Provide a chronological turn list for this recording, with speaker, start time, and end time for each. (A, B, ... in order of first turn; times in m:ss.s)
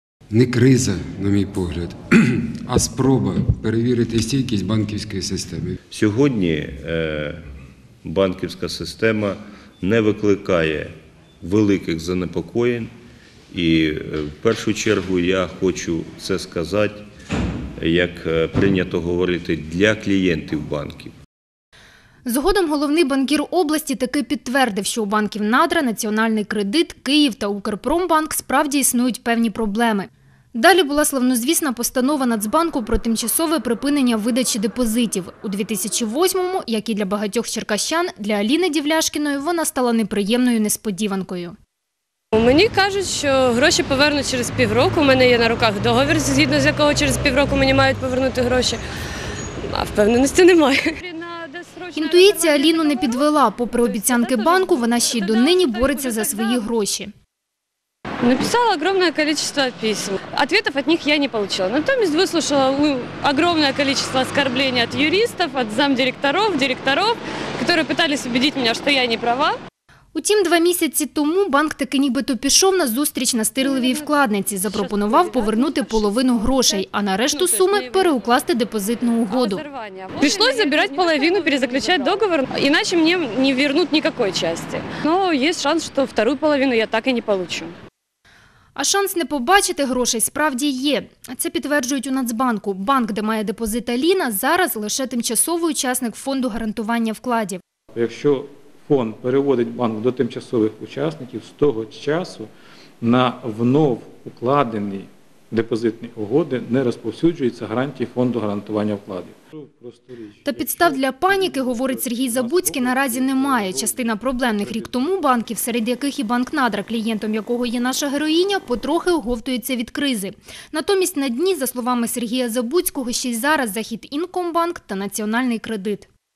0:00.3-0:05.8 A
0:05.9-0:07.4 B
0:08.0-0:12.9 B
0:13.5-0:17.0 B
0:17.8-0:21.1 B
0:22.2-0:41.5 C
0:42.3-0:48.8 D
0:49.7-0:56.6 D
0:51.9-0:57.1 C
0:58.2-1:09.6 D
1:10.1-1:19.6 C
1:14.6-1:18.1 D
1:19.3-1:27.7 D
1:20.2-1:21.4 C
1:28.8-1:37.6 C
1:38.0-1:42.5 E
1:43.0-1:53.6 E
1:50.4-2:06.1 C
1:52.4-1:52.7 B